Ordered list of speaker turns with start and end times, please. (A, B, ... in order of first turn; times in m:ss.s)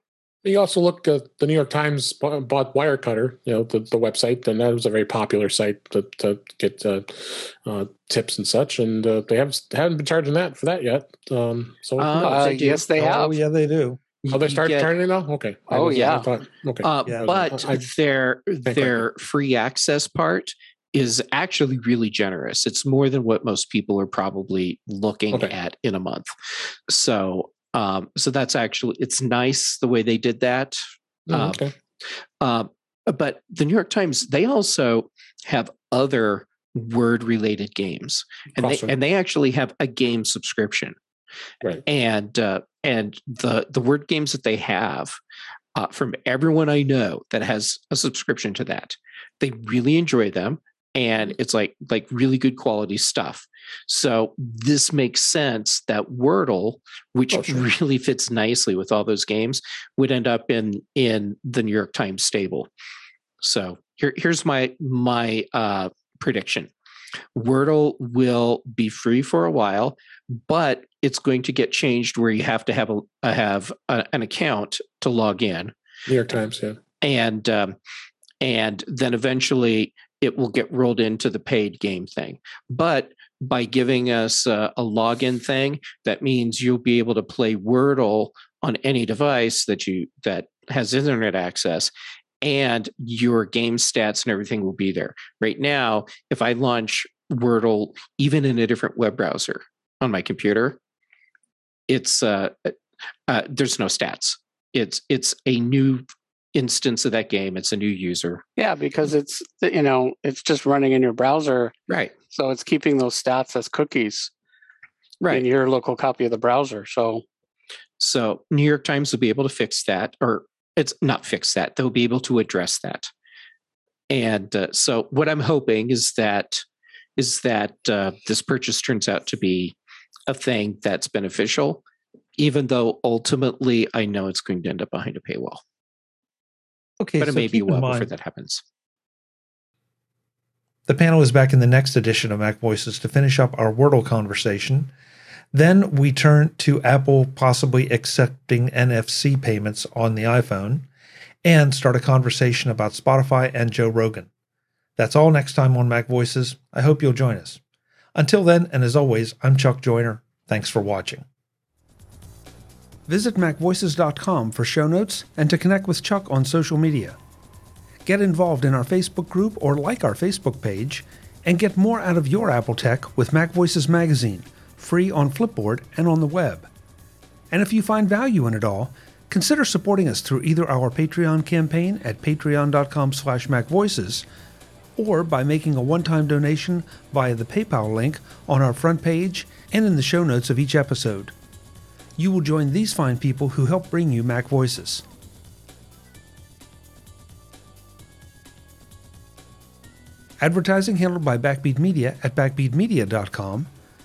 0:00.4-0:12.4 A
0:12.0-0:12.8 B
0:12.2-0:13.4 C
0:12.2-0:14.0 D
0:14.2-0:14.9 B
0:14.3-0:17.8 A
0:15.7-0:16.3 C
0:16.8-0:26.3 B
0:17.1-0:17.4 D
0:18.7-0:19.0 A
0:26.9-0:30.8 B
0:31.3-0:31.7 A
0:31.3-0:31.7 B
0:32.4-0:41.0 B
0:38.6-0:39.0 A
0:41.8-0:45.2 B
0:45.8-1:02.7 B
0:57.3-0:57.7 A
1:03.4-1:06.7 B
1:07.4-1:15.7 B
1:16.1-1:16.8 A
1:17.0-1:17.8 B
1:18.4-1:31.9 B
1:32.4-1:40.8 B
1:41.9-1:42.8 B
1:43.3-1:46.0 B
1:46.6-1:48.4 B
1:48.6-1:51.7 C
1:52.3-1:54.3 C
1:55.3-1:57.2 C
1:58.0-2:03.1 B
2:04.1-2:06.6 B
2:07.2-2:09.7 B
2:10.3-2:11.8 B
2:12.4-2:15.6 B
2:17.0-2:18.1 D
2:17.2-2:18.6 B
2:20.9-2:24.9 D
2:25.5-2:30.9 D
2:31.4-2:34.3 D
2:35.0-2:37.6 D
2:38.2-2:41.2 D
2:43.1-2:47.2 D
2:48.0-2:56.7 D
2:57.5-3:04.2 D
3:05.0-3:11.3 D
3:12.2-3:15.0 D
3:20.4-3:23.7 D